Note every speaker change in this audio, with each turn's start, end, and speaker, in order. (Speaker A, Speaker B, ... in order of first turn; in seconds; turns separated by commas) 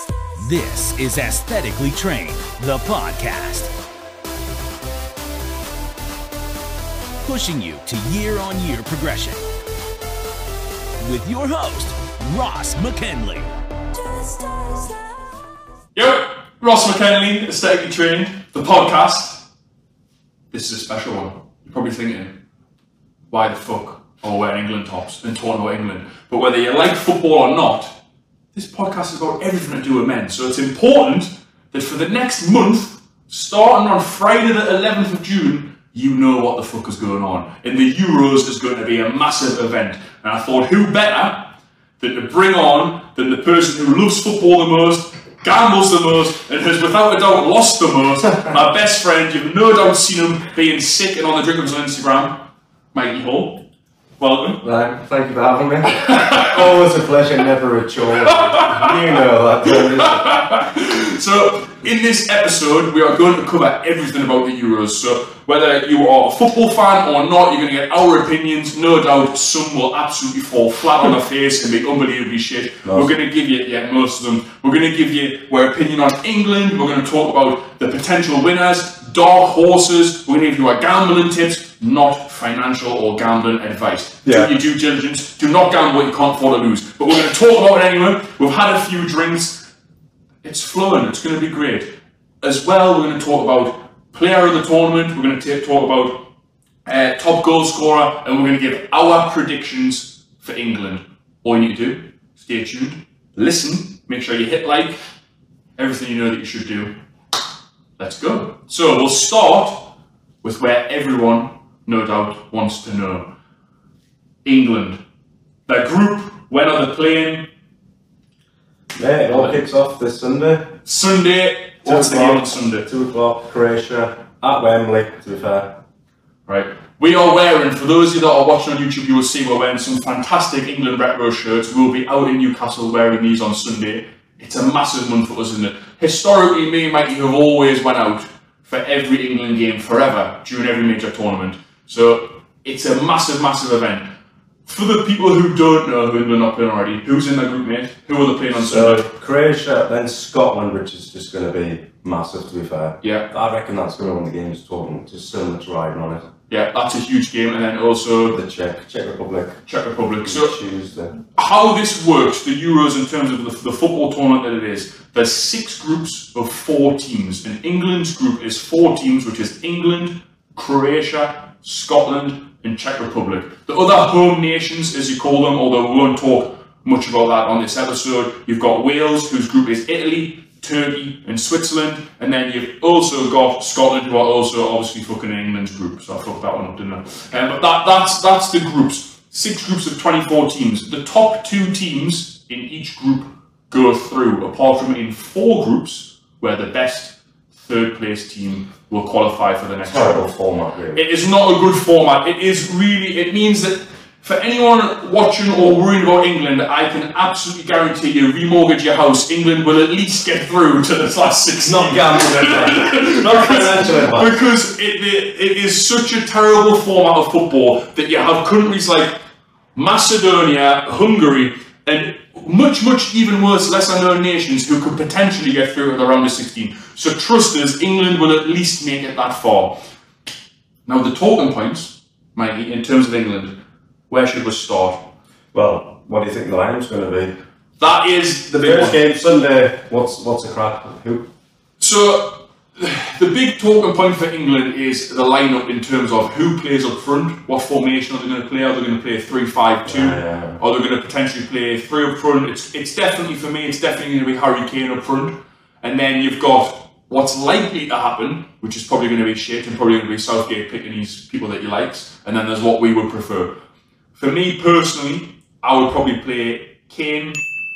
Speaker A: 0.3-3.7, Speaker A: 7.2-9.4, Speaker A: 11.0-13.5, Speaker A: 14.1-14.9, Speaker B: 15.9-19.4, Speaker B: 20.5-22.4, Speaker B: 23.3-27.9, Speaker B: 28.5-53.6, Speaker B: 54.2-54.6, Speaker C: 54.6-60.3, Speaker B: 55.9-56.8, Speaker B: 58.2-59.0, Speaker B: 59.6-89.7, Speaker C: 72.8-73.1, Speaker C: 84.2-84.5, Speaker B: 90.4-96.3, Speaker B: 96.8-105.0, Speaker B: 105.8-107.0, Speaker B: 108.0-113.3, Speaker B: 114.5-115.0, Speaker B: 115.7-117.5, Speaker C: 119.0-120.8, Speaker B: 119.3-119.6, Speaker B: 120.8-122.9, Speaker C: 121.8-125.8, Speaker B: 126.5-144.1, Speaker B: 144.7-149.1, Speaker C: 148.6-156.3, Speaker B: 153.0-153.3, Speaker B: 156.5-158.4, Speaker C: 158.3-159.6, Speaker B: 159.7-160.6, Speaker C: 160.2-161.1, Speaker B: 161.3-200.3, Speaker C: 199.8-201.1, Speaker B: 200.9-219.1, Speaker C: 211.6-214.4, Speaker B: 219.8-229.8, Speaker B: 230.9-233.6, Speaker B: 234.1-235.1, Speaker C: 235.5-237.3, Speaker B: 237.8-239.0, Speaker C: 238.6-241.3, Speaker B: 241.8-263.6, Speaker C: 249.8-250.6, Speaker B: 264.1-267.4